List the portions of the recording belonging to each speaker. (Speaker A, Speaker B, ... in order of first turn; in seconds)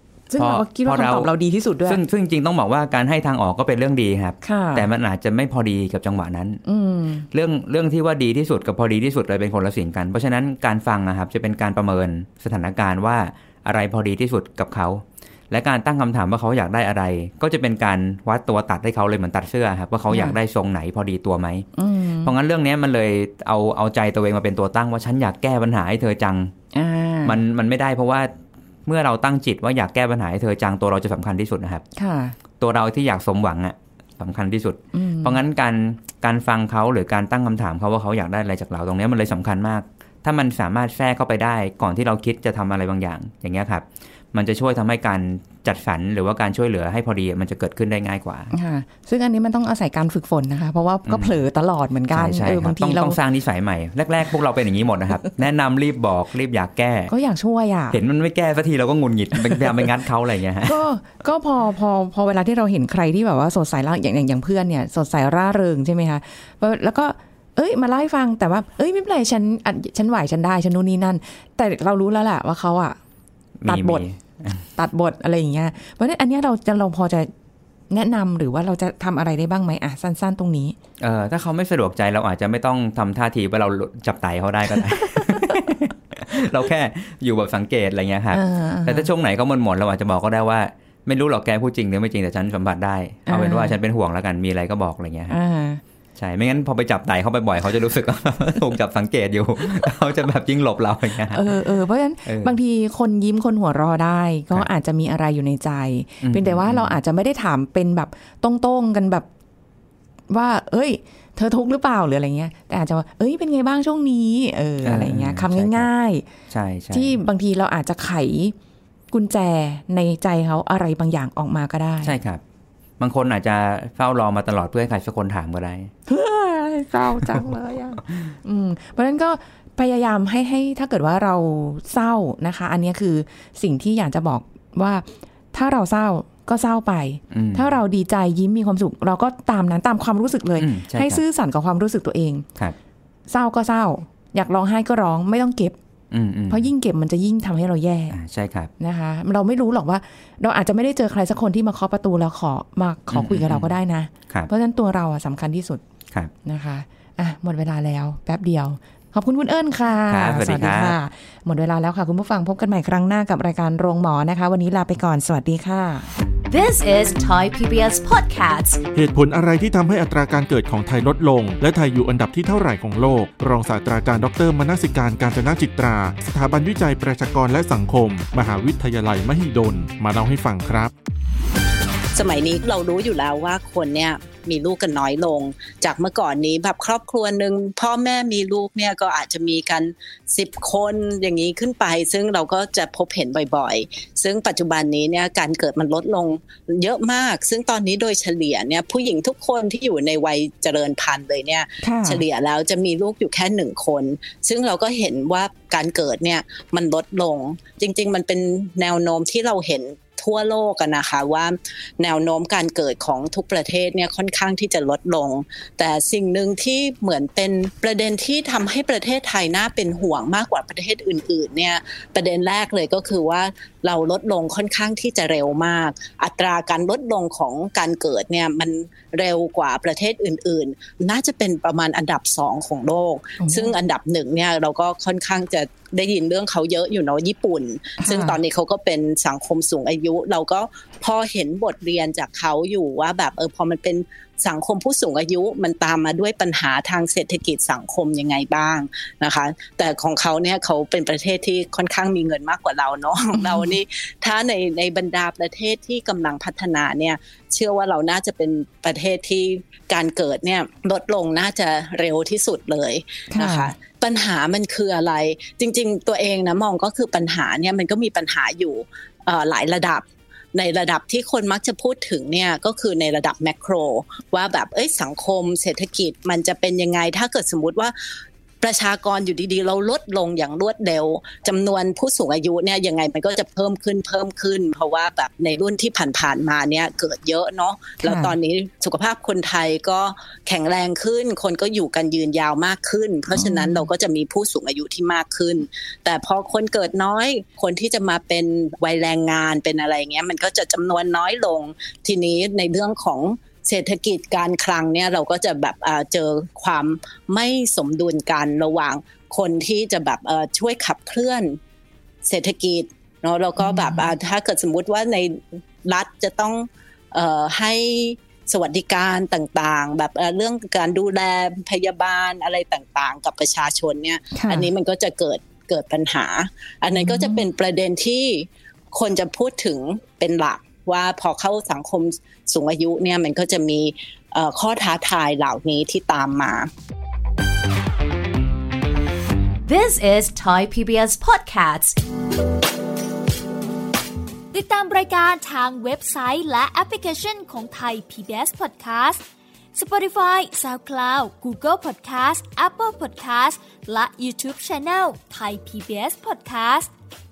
Speaker A: 0.3-2.0, 4.4-4.9, 6.7-7.3, 20.1-20.4, 21.8-22.3, 26.7-27.4, 32.0-32.4, 34.9-35.4, 48.5-53.2, 57.1-58.0, 60.6-73.0, 73.7-74.0, 74.8-77.3, 77.9-80.8, 85.2-85.6, 88.3-89.1, 93.3-93.8, 95.3-95.8, 101.3-109.3, 110.3-116.3, 116.9-118.5, 119.1-122.2, 126.1-142.5, 143.3-145.8, 146.5-148.2, 148.8-155.8, 156.4-166.1, 201.8-202.2, 233.4-233.7, 238.0-238.4, 253.4-253.7, 263.3-263.7, 288.0-288.4, 293.3-293.9, 313.6-314.0, 324.3-324.7, 327.0-327.4
Speaker B: 0.4-1.3, 1.9-6.6, 7.3-21.7, 22.2-26.5, 27.2-28.3, 28.9-31.8, 32.6-48.5, 51.1-51.3, 52.1-57.1, 57.9-60.8, 73.6-74.7, 81.0-95.4, 96.2-101.5, 102.2-102.6, 106.2-107.0, 114.8-115.9, 116.5-117.2, 122.0-122.4, 123.0-125.9, 137.3-137.8, 140.6-141.2, 146.1-146.7, 148.1-148.7, 153.1-153.8, 160.1-161.0
Speaker C: 166.5-168.8, 339.6-342.0
Speaker D: 168.9-180.9
Speaker E: 182.2-278.0, 278.6-311.6, 312.2-336.7
Speaker F: 344.5-349.2, 349.8-356.9